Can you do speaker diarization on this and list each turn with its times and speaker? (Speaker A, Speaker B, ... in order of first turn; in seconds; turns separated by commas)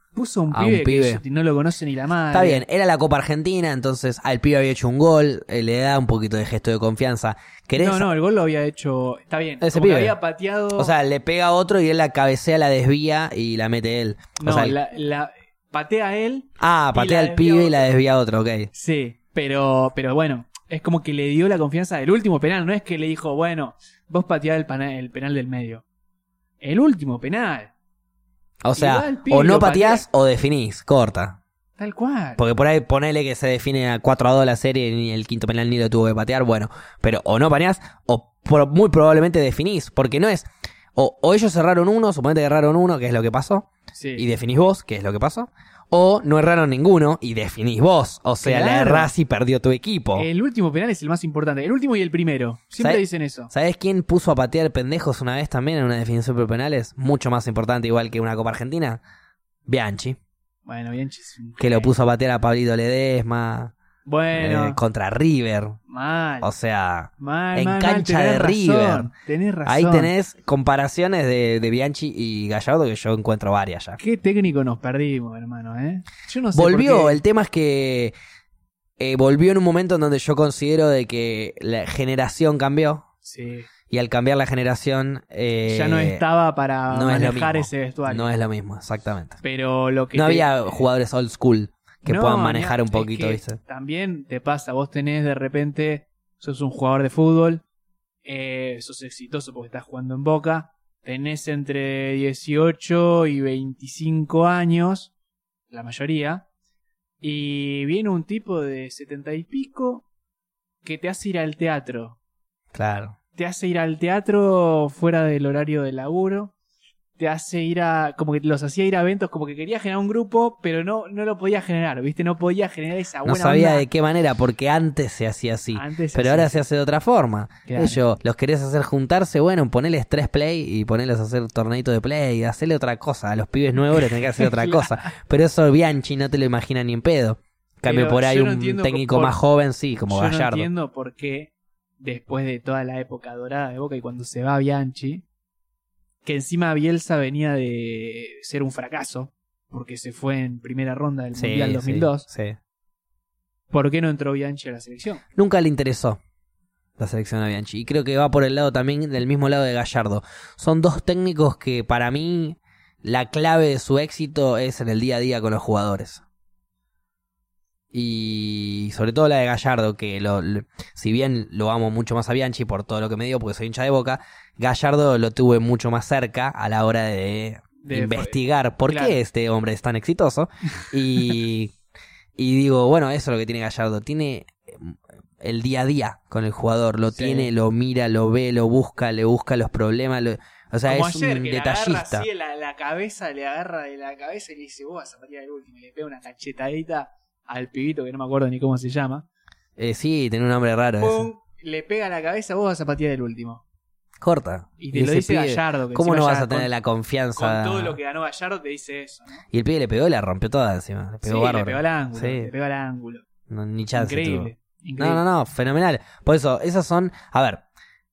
Speaker A: 0.1-2.6, Speaker B: 0.5-1.2, Speaker B: 2.3-8.1, Speaker A: 7.8-10.9, Speaker B: 9.6-10.1, Speaker B: 10.7-14.8, Speaker A: 14.4-17.9, Speaker B: 16.6-18.7, Speaker A: 18.7-25.8, Speaker A: 26.6-27.7, Speaker B: 28.6-31.4, Speaker A: 28.8-30.1, Speaker A: 31.8-32.4, Speaker B: 32.4-50.3, Speaker A: 44.0-44.3, Speaker A: 48.4-49.1, Speaker A: 50.1-53.5, Speaker B: 52.8-59.0, Speaker B: 59.7-60.2, Speaker A: 60.6-61.9, Speaker B: 61.6-63.7, Speaker A: 64.0-64.8, Speaker B: 64.3-65.8, Speaker A: 65.9-66.5, Speaker B: 66.4-69.1, Speaker A: 67.2-70.1, Speaker B: 69.7-74.0, Speaker A: 74.0-77.2, Speaker B: 76.5-78.1, Speaker B: 79.0-83.0, Speaker A: 83.2-83.7, Speaker B: 83.9-86.2, Speaker A: 85.7-88.3, Speaker B: 86.9-89.4, Speaker A: 89.4-90.8, Speaker B: 90.1-93.6, Speaker A: 92.0-97.6, Speaker A: 98.2-105.1, Speaker A: 105.7-106.5, Speaker A: 107.2-110.0, Speaker A: 110.8-112.2, Speaker B: 112.7-113.2, Speaker A: 113.4-116.5, Speaker A: 117.2-123.9, Speaker B: 123.2-140.7, Speaker A: 125.7-126.6, Speaker A: 127.7-128.0, Speaker A: 133.9-134.9, Speaker A: 137.8-139.4, Speaker A: 140.1-145.2, Speaker A: 146.2-152.3, Speaker B: 151.3-152.6, Speaker A: 153.7-155.2, Speaker B: 155.3-156.2, Speaker B: 157.0-166.2, Speaker B: 167.9-181.7, Speaker A: 177.8-179.2, Speaker B: 182.4-192.3, Speaker A: 187.1-187.5, Speaker A: 190.8-199.3, Speaker B: 199.8-201.3, Speaker A: 201.0-203.6, Speaker B: 204.2-208.0, Speaker A: 204.8-206.7, Speaker A: 207.3-209.4, Speaker B: 209.5-212.5, Speaker A: 211.2-213.2, Speaker B: 213.5-217.6, Speaker A: 213.9-215.2